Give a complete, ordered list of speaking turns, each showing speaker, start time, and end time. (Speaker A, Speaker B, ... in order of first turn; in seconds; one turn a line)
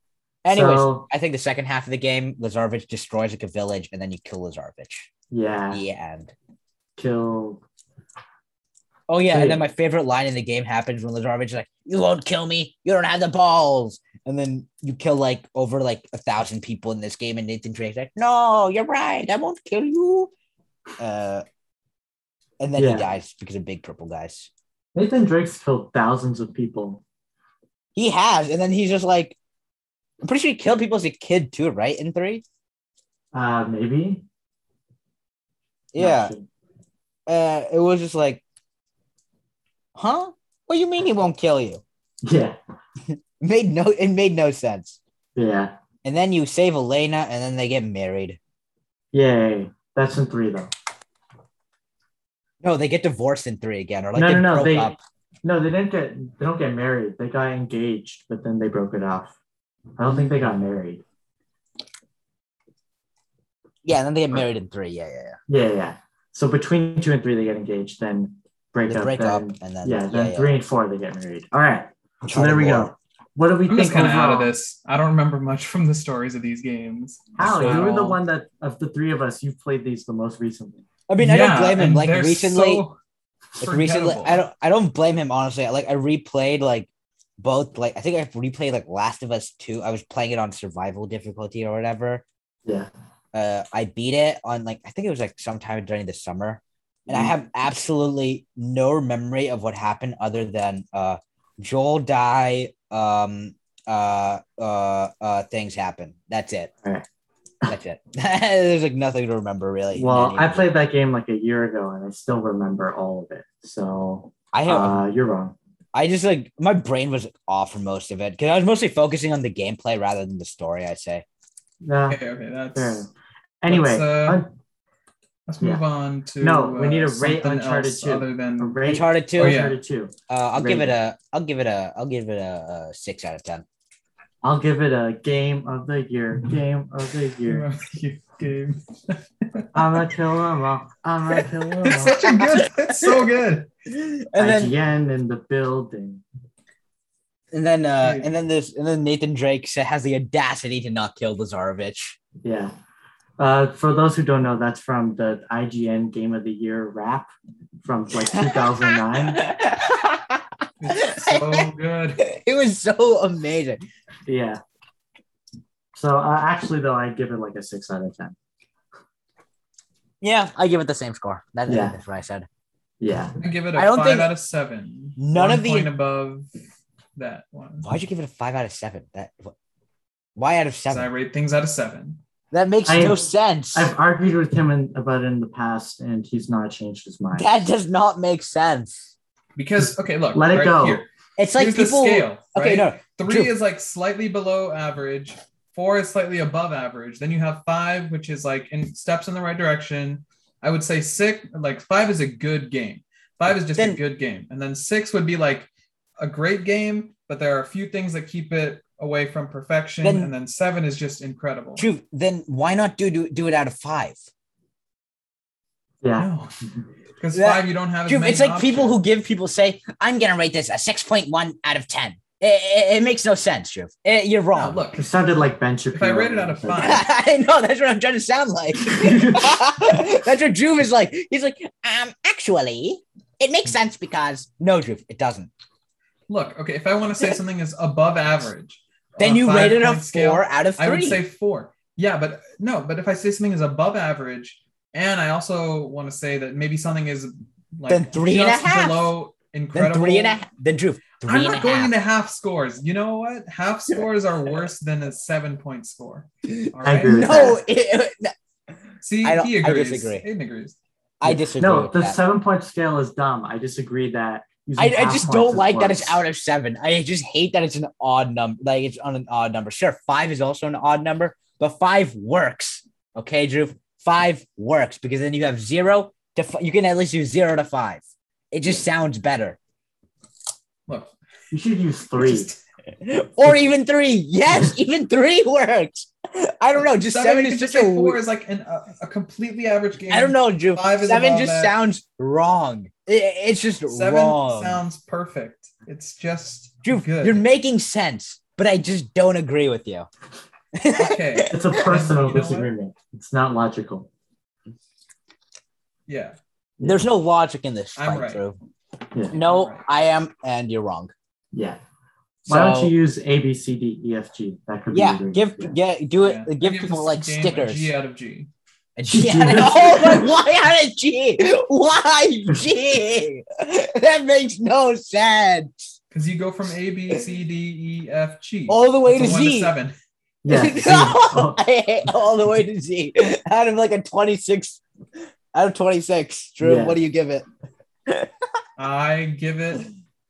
Speaker A: 0.4-5.1
Speaker B: 0.5-1.1
Speaker B: 5.3-5.8
Speaker A: 5.7-6.3
Speaker B: 7.0-7.6
Speaker A: 9.1-20.3
Speaker B: 9.3-9.6
Speaker A: 21.0-21.4
Speaker A: 22.6-24.5
Speaker B: 22.8-23.1
Speaker B: 24.9-27.0
Speaker A: 28.0-29.4
Speaker A: 30.2-32.4
Speaker B: 33.3-34.2
Speaker A: 35.9-36.3
Speaker B: 36.0-36.5
Speaker A: 37.3-38.4
Speaker A: 40.0-41.8
Speaker B: 42.2-42.6
Speaker A: 43.1-45.0
Speaker B: 45.4-45.7
Speaker A: 46.0-48.4
Speaker B: 49.1-50.7
Speaker A: 52.6-55.0
Speaker B: 54.1-59.3
Speaker B: 60.0-61.0
Speaker A: 63.8-65.4
Speaker B: 65.5-74.5
Speaker A: 68.9-70.6
Speaker A: 72.2-72.9
Speaker C: 73.7-78.2
Speaker B: 77.4-80.8
Speaker A: 77.4-77.9
Speaker A: 81.1-82.8
Speaker C: 81.2-83.0
Speaker C: 83.6-84.4
Speaker A: 83.6-92.2
Speaker A: 93.3-106.7
Speaker B: 97.1-97.3
Speaker A: 107.7-110.7
Speaker B: 110.0-115.6
Speaker A: 114.5-115.0
Speaker A: 115.9-121.2
Speaker B: 121.8-122.2
Speaker C: 122.1-123.1
Speaker B: 122.8-123.1
Speaker B: 123.6-124.5
Speaker C: 123.7-124.4
Speaker C: 125.5-128.8
Speaker B: 126.4-130.9
Speaker A: 128.9-129.6
Speaker C: 129.4-129.8
Speaker A: 130.3-133.7
Speaker B: 134.4-137.7
Speaker C: 137.5-139.7
Speaker B: 139.7-142.2
Speaker C: 141.8-143.7
Speaker A: 141.9-143.3
Speaker A: 143.9-144.7
Speaker B: 144.4-146.2
Speaker A: 147.5-152.2
Speaker C: 148.0-148.3
Speaker B: 152.4-152.7
Speaker B: 153.4-157.3
Speaker B: 157.8-159.4
Speaker A: 158.2-163.8
Speaker C: 160.8-162.2
Speaker B: 164.3-164.6
Speaker B: 165.9-168.4
Speaker A: 170.2-172.5
Speaker B: 171.7-172.0
Speaker B: 173.0-173.4
Speaker C: 173.4-176.5
Speaker A: 173.8-174.3
Speaker A: 175.2-175.9
Speaker C: 177.2-177.9
Speaker A: 177.8-179.5
Speaker A: 180.4-181.1
Speaker C: 180.9-182.2
Speaker A: 182.5-183.9
Speaker B: 182.9-183.2
Speaker B: 183.7-187.5
Speaker A: 187.4-189.1
Speaker C: 189.6-211.9
Speaker B: 189.8-191.0
Speaker A: 191.4-193.5
Speaker A: 210.0-210.3
Speaker A: 211.8-214.2
Speaker B: 216.0-216.8
Speaker C: 216.2-216.5
Speaker C: 217.2-219.0
Speaker A: 217.3-224.8
Speaker C: 224.5-225.1
Speaker B: 224.9-227.0
Speaker C: 225.9-227.1
Speaker A: 226.8-235.5
Speaker B: 228.8-229.7
Speaker C: 236.3-250.4
Speaker A: 239.2-241.2
Speaker A: 247.9-249.1
Speaker A: 249.7-251.9
Speaker C: 251.2-257.6
Speaker A: 256.5-258.3
Speaker B: 256.8-257.6
Speaker C: 259.0-260.8
Speaker A: 259.2-260.2
Speaker A: 261.2-262.2
Speaker B: 261.2-266.2
Speaker A: 264.8-279.6
Speaker C: 280.9-281.1
Speaker B: 281.5-282.5
Speaker C: 282.2-282.6
Speaker A: 283.0-288.2
Speaker C: 287.0-291.8
Speaker A: 290.1-294.8
Speaker C: 293.9-297.4
Speaker A: 296.9-300.1
Speaker A: 300.7-302.0
Speaker C: 300.9-302.7
Speaker B: 301.5-304.1
Speaker C: 306.1-306.4
Speaker A: 306.8-308.6
Speaker C: 308.0-308.4
Speaker A: 309.3-311.1
Speaker C: 309.4-309.9
Speaker B: 311.5-311.8
Speaker A: 312.5-312.9
Speaker B: 312.5-315.8
Speaker A: 314.9-317.9
Speaker C: 316.2-318.5
Speaker A: 319.0-325.9
Speaker B: 319.1-320.3
Speaker C: 326.1-329.9
Speaker A: 328.7-329.7
Speaker B: 330.4-331.6
Speaker A: 330.5-334.8
Speaker A: 335.5-337.4
Speaker B: 336.6-337.0
Speaker C: 338.8-339.9